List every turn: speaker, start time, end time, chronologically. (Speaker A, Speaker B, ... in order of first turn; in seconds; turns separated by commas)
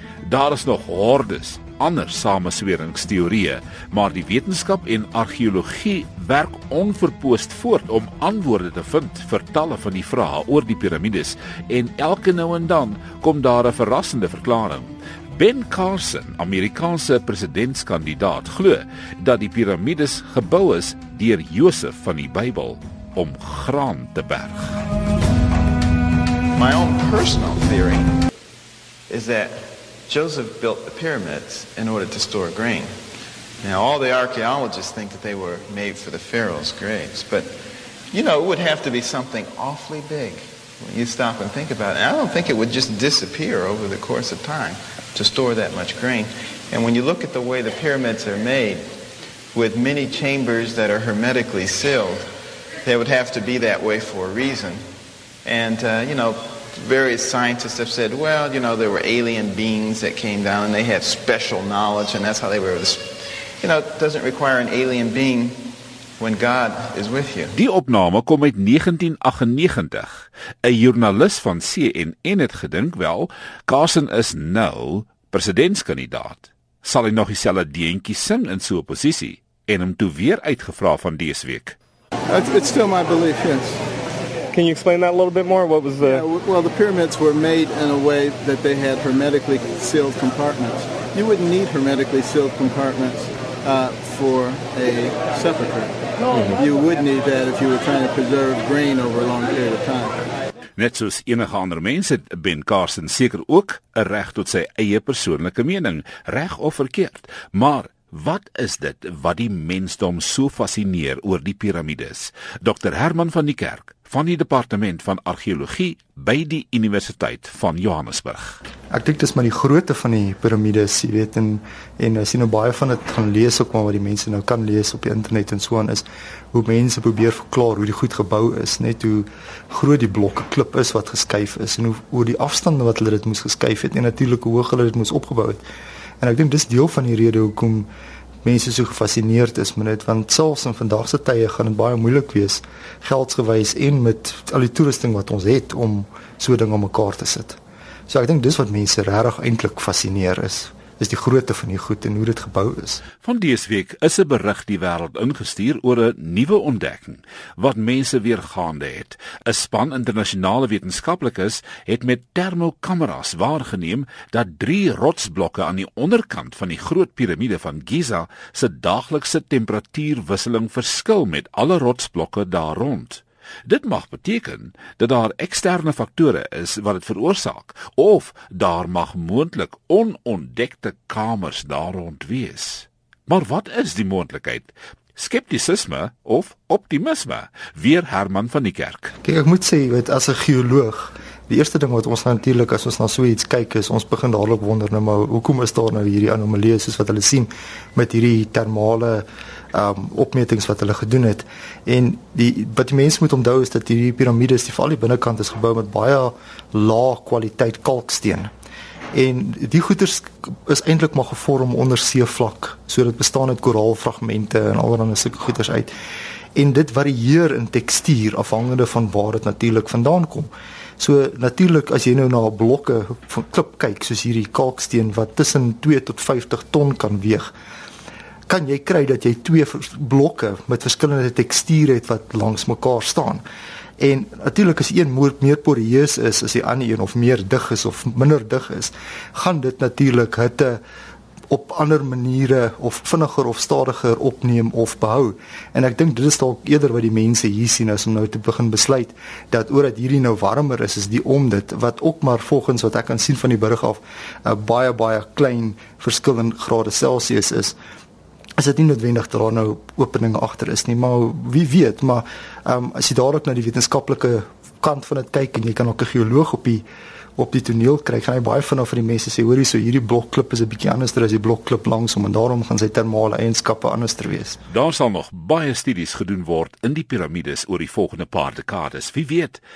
Speaker A: 0.2-24.8, Speaker B: 26.6-28.2, Speaker B: 29.1-32.9, Speaker B: 33.6-37.5, Speaker B: 38.1-48.8, Speaker B: 49.5-52.3, Speaker B: 52.8-54.8, Speaker B: 55.5-67.5, Speaker A: 67.5-81.8, Speaker C: 82.3-83.8, Speaker D: 84.5-86.3, Speaker C: 86.1-95.9, Speaker D: 96.2-96.6, Speaker C: 96.5-100.2, Speaker A: 100.8-118.6, Speaker E: 118.9-135.6, Speaker E: 136.2-137.9, Speaker E: 138.4-153.0, Speaker A: 153.2-189.1, Speaker E: 189.2-208.5, Speaker E: 209.1-215.9, Speaker E: 216.6-227.5, Speaker E: 228.5-233.4, Speaker E: 234.0-240.8, Speaker E: 241.5-257.8, Speaker E: 258.6-266.9, Speaker E: 267.4-274.6, Speaker A: 274.7-279.6